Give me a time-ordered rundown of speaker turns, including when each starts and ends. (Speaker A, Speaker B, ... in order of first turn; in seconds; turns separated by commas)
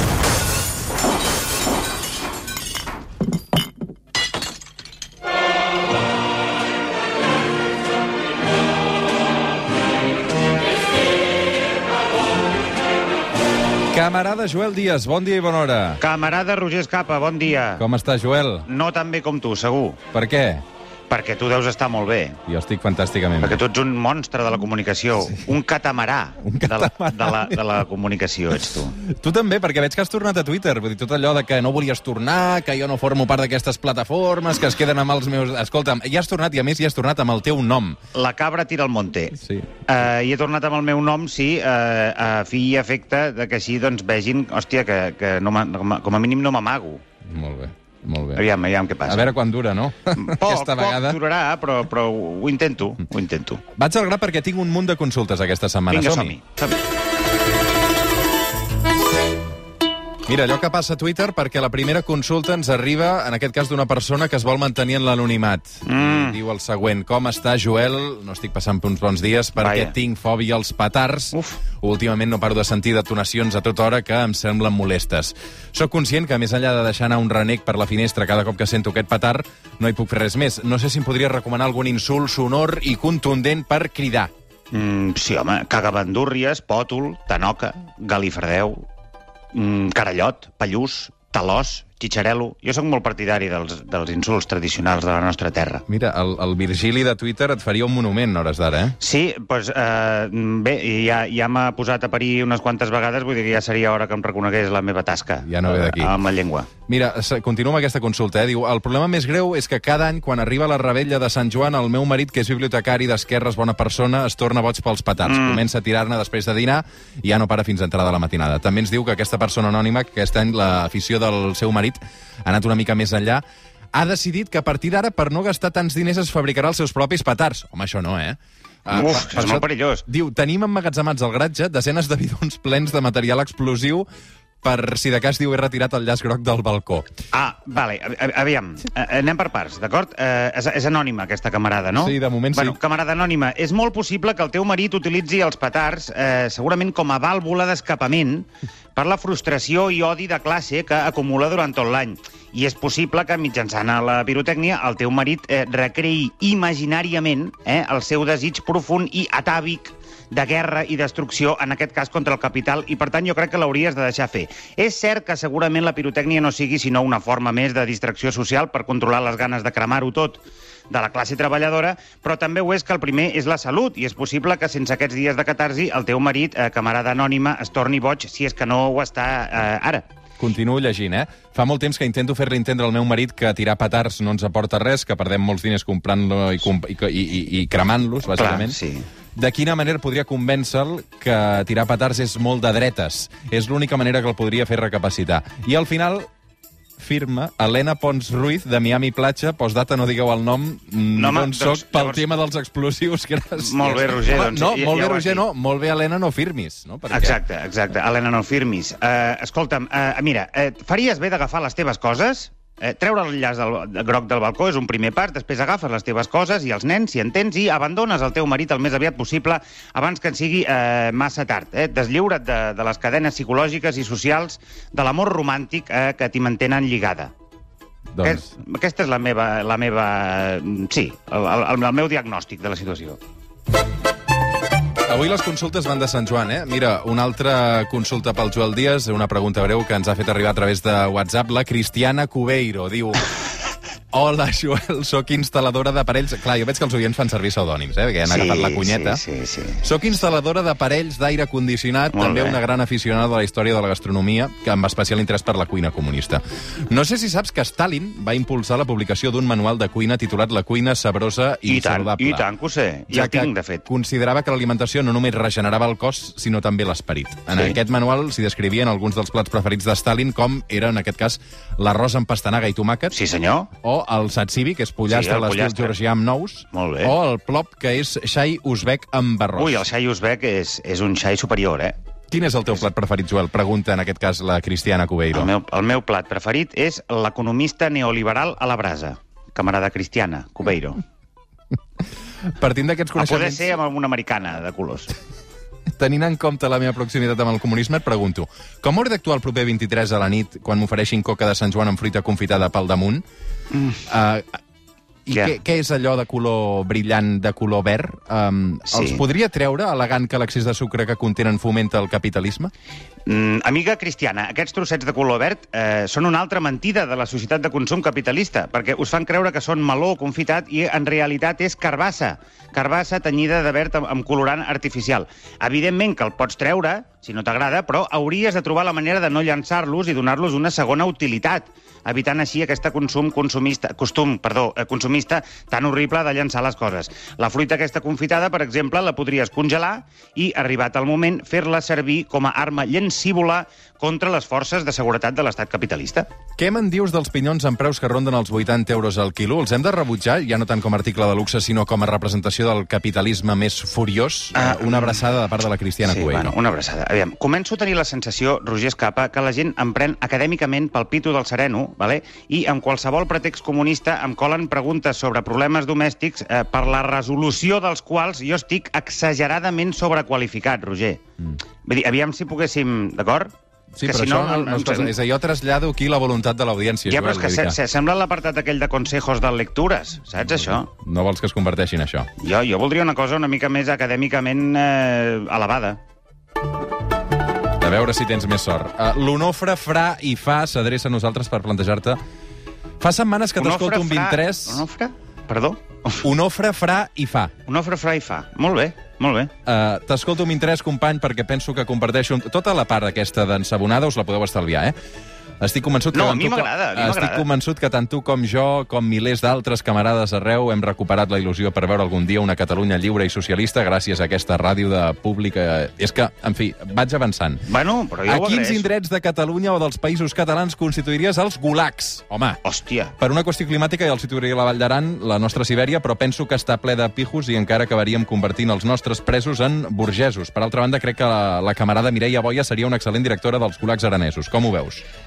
Speaker A: 13.9-16.0, Speaker B: 16.0-17.8, Speaker A: 17.8-18.7, Speaker B: 18.7-20.0, Speaker A: 20.1-20.6, Speaker B: 21.1-22.4, Speaker A: 22.5-23.6, Speaker B: 23.4-29.0, Speaker A: 26.4-27.6, Speaker A: 28.5-38.0, Speaker B: 38.1-39.4, Speaker A: 39.4-39.7, Speaker B: 39.9-47.0, Speaker A: 47.2-48.4, Speaker B: 48.4-49.3, Speaker A: 49.1-51.2, Speaker B: 50.2-53.6, Speaker A: 53.7-56.4, Speaker B: 55.9-56.8, Speaker A: 60.3-84.3, Speaker B: 65.9-66.4, Speaker B: 69.6-69.9, Speaker B: 71.3-71.6, Speaker B: 84.7-88.9, Speaker B: 89.5-95.8, Speaker A: 95.9-99.0, Speaker B: 99.0-106.7, Speaker A: 105.4-106.1, Speaker A: 106.9-134.1, Speaker B: 115.2-115.6, Speaker B: 128.9-130.1, Speaker A: 134.6-137.1, Speaker B: 137.3-180.1, Speaker A: 141.9-142.8, Speaker A: 180.4-188.8, Speaker B: 188.3-189.1, Speaker A: 189.3-196.3, Speaker A: 197.0-207.4, Speaker B: 201.2-202.3, Speaker B: 203.6-205.4, Speaker B: 207.1-227.3, Speaker A: 228.1-228.5, Speaker B: 228.2-233.2, Speaker A: 235.1-243.2, Speaker A: 244.1-249.2, Speaker B: 248.3-249.8, Speaker A: 249.8-262.5, Speaker B: 252.1-252.6, Speaker B: 261.7-263.9, Speaker A: 263.1-273.2, Speaker B: 273.1-273.7, Speaker A: 273.8-279.8, Speaker B: 275.1-275.9, Speaker B: 276.7-277.1, Speaker B: 279.6-282.0, Speaker A: 282.3-285.5, Speaker B: 285.3-291.0, Speaker A: 292.4-293.7, Speaker B: 293.2-295.1, Speaker A: 295.9-303.2, Speaker A: 304.1-304.6, Speaker A: 305.3-312.7, Speaker B: 308.9-309.2, Speaker B: 313.3-346.3, Speaker A: 346.6-356.6, Speaker B: 354.5-355.3, Speaker B: 356.0-371.2, Speaker B: 371.9-375.1, Speaker A: 373.9-377.8, Speaker B: 377.1-380.9, Speaker A: 380.9-382.3, Speaker B: 382.4-386.0, Speaker A: 387.8-392.2, Speaker A: 393.0-394.9, Speaker B: 393.6-396.2, Speaker A: 396.2-397.5, Speaker B: 397.7-399.5, Speaker A: 399.6-404.9, Speaker A: 405.6-417.7, Speaker B: 406.1-407.4, Speaker B: 417.7-418.9, Speaker A: 418.3-422.6, Speaker B: 422.6-423.1, Speaker A: 423.2-435.0